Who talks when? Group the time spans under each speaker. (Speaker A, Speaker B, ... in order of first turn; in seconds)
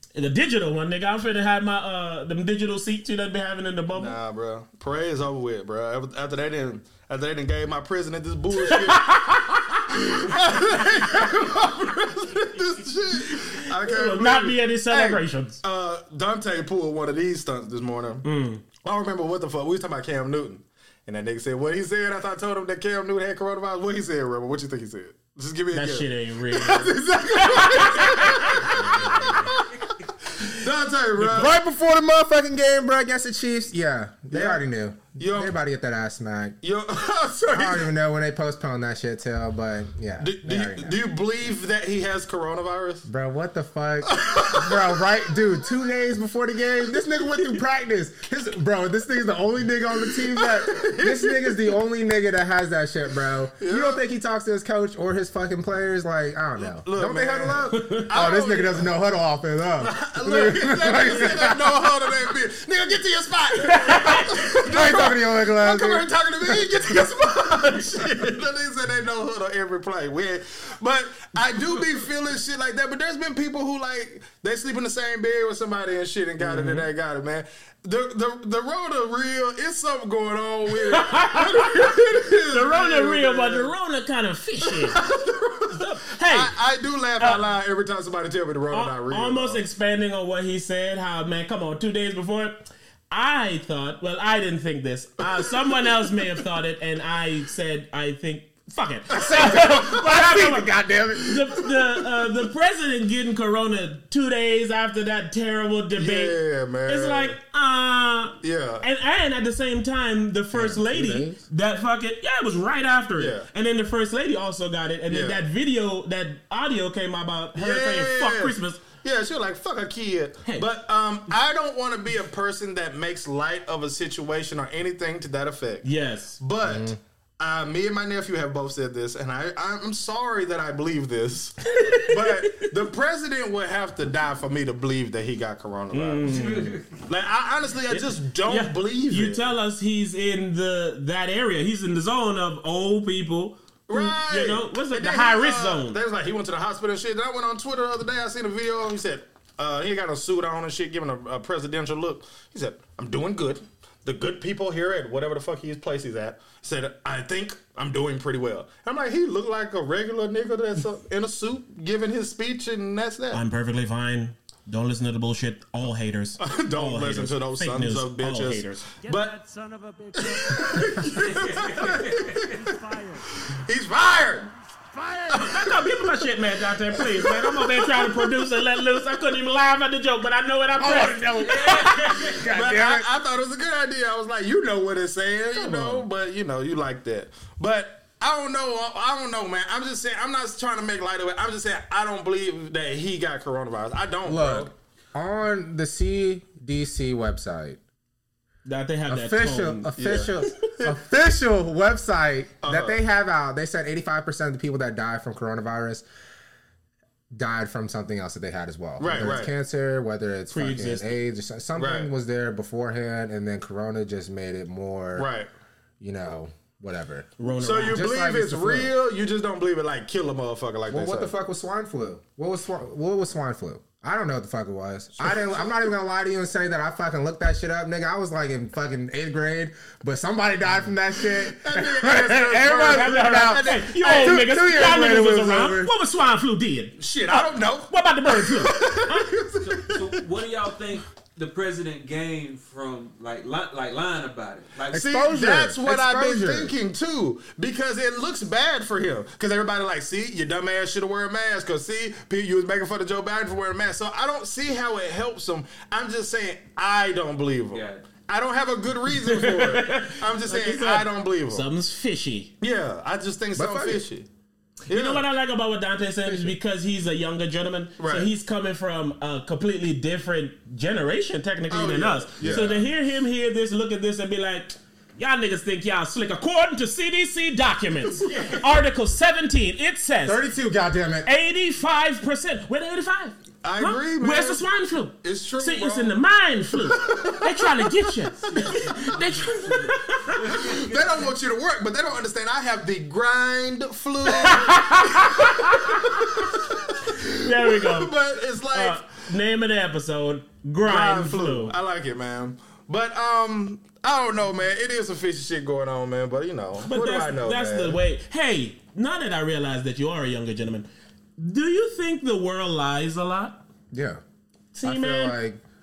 Speaker A: 0.1-4.2, 8.6-10.0, 10.6-11.2, 13.2-15.6, 18.2-18.6, 25.7-29.3, 57.7-58.1, 63.8-64.4, 76.4-76.9, 80.8-82.0, 82.5-85.0, 85.7-86.5, 88.7-118.9, 125.8-126.4, 131.7-132.7, 135.9-136.8, 137.9-146.0, 163.3-168.8, 175.3-182.4, 198.6-200.5, 210.5-211.2, 217.4-218.1, 232.6-237.0, 237.9-239.3, 259.1-262.5, 264.9-280.4, 281.2-290.6, 294.3-296.3, 297.3-298.1, 298.7-301.8, 306.8-310.9, 311.4-313.6, 314.7-315.4
Speaker B: 3.9-9.1, 9.9-18.2, 18.8-31.5, 34.3-34.6, 35.2-35.5, 36.6-37.9, 40.2-43.1, 44.1-45.0, 50.4-51.7, 53.6-54.0, 56.7-58.9, 59.8-83.7, 84.8-89.6, 99.1-99.9, 106.0-107.4, 108.4-108.8, 113.2-113.5, 115.1-115.4, 117.6-125.9, 126.4-136.3, 137.1-139.4, 143.9-163.4, 166.4-169.4, 170.2-172.8, 173.5-174.5, 177.0-178.2, 182.4-194.7, 200.0-201.0, 202.6-203.0, 209.0-209.5, 211.8-212.1, 215.2-215.5, 217.6-221.3, 231.3-235.1, 237.0-240.2, 244.9-261.6, 262.6-264.3, 264.9-265.2, 268.0-268.3, 271.7-272.9, 283.6-284.6, 285.2-286.2, 286.7-288.1, 290.5-299.1, 300.8-308.0
Speaker C: 31.2-36.6, 37.5-41.0, 43.1-62.0, 64.5-66.7, 99.1-101.6, 110.5-111.4, 126.6-127.0, 180.8-183.1, 185.5-186.1, 194.2-197.8, 199.1-206.1, 207.3-215.3, 216.0-218.9, 220.9-235.9, 244.9-246.7, 263.6-264.0, 266.2-266.6, 272.4-272.8, 280.2-281.3, 313.9-314.2, 314.8-315.6
Speaker D: 136.2-137.0, 171.1-172.4, 181.4-182.5, 239.6-245.2, 257.7-258.0, 288.7-291.1
Speaker E: 169.0-173.5, 174.8-176.0